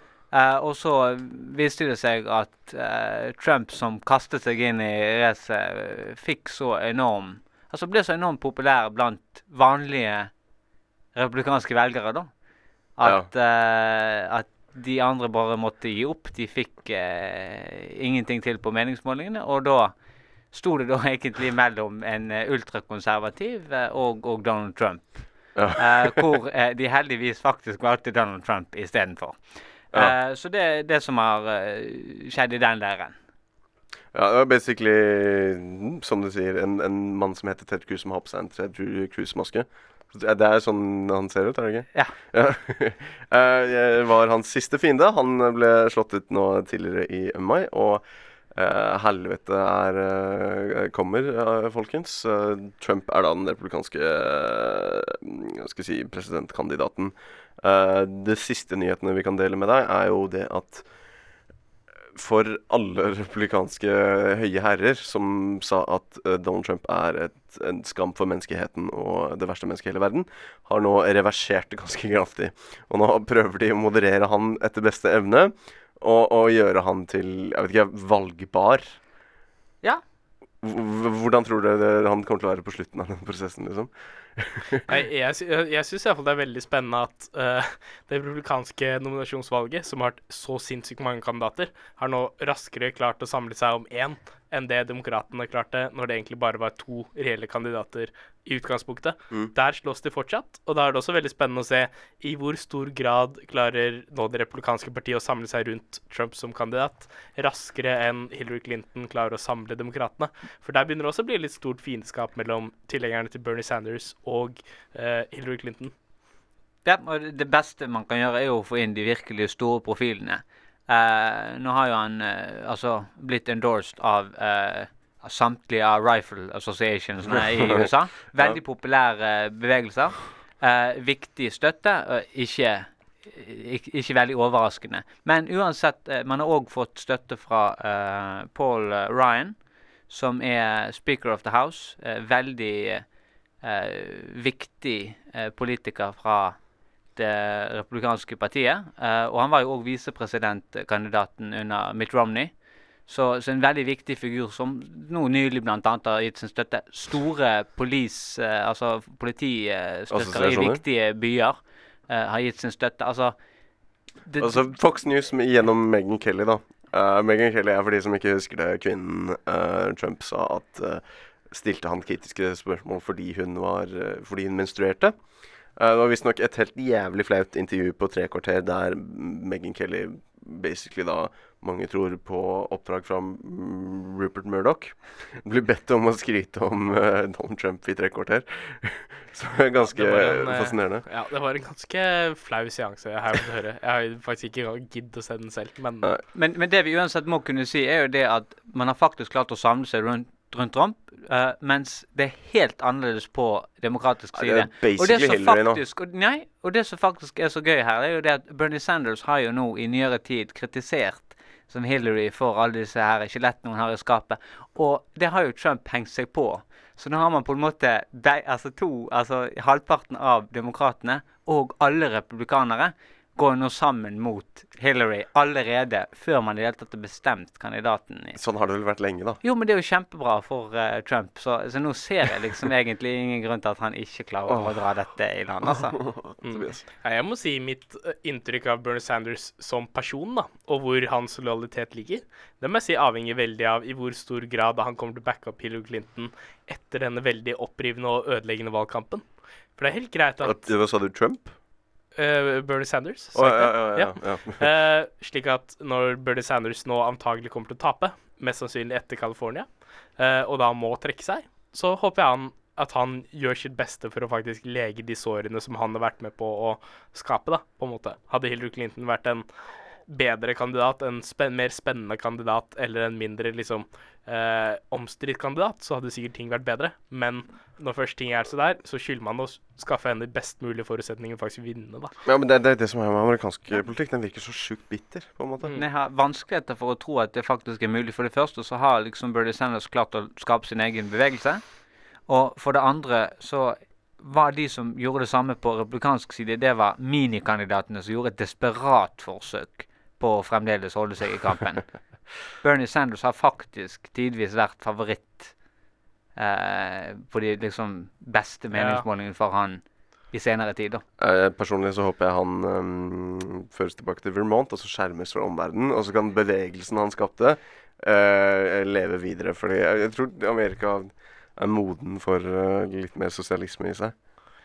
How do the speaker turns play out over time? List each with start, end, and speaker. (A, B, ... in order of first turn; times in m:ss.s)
0:00.3-0:10.3 A
0:11.1-0:12.3 A
0:13.0-0:19.9 A
0:13.0-0:13.3 B
0:20.5-0:33.2 A
0:25.5-0:26.2 B
0:34.1-1:00.8 B
1:02.1-1:19.0 B
1:20.6-1:24.8 B
1:24.9-1:55.9 C
1:56.8-2:19.6 A
2:07.3-2:07.8 B
2:20.1-2:23.1 A
2:23.6-2:26.6 A
2:27.1-2:32.5 A
2:33.1-2:43.3 A
2:40.1-2:40.8 B
2:44.2-2:44.6 A
2:44.4-2:55.1 B
2:55.8-3:11.0 B
3:09.9-3:16.1 C
3:16.3-3:48.4 A
3:24.3-3:25.8 B
3:48.3-3:49.4 B
3:49.4-3:56.0 A
3:55.8-3:56.8 B
3:56.4-4:09.2 C
4:09.8-4:10.6 C
4:10.4-4:11.5 B
4:12.2-4:19.7 C
4:13.3-4:14.7 B
4:20.2-4:29.4 C
4:30.1-4:42.1 C
4:42.2-4:45.7 B
4:45.7-4:51.6 A
4:52.3-5:01.9 A
5:02.6-5:05.5 A
5:06.4-5:11.0 A
5:08.7-5:09.0 C
5:11.2-5:24.1 B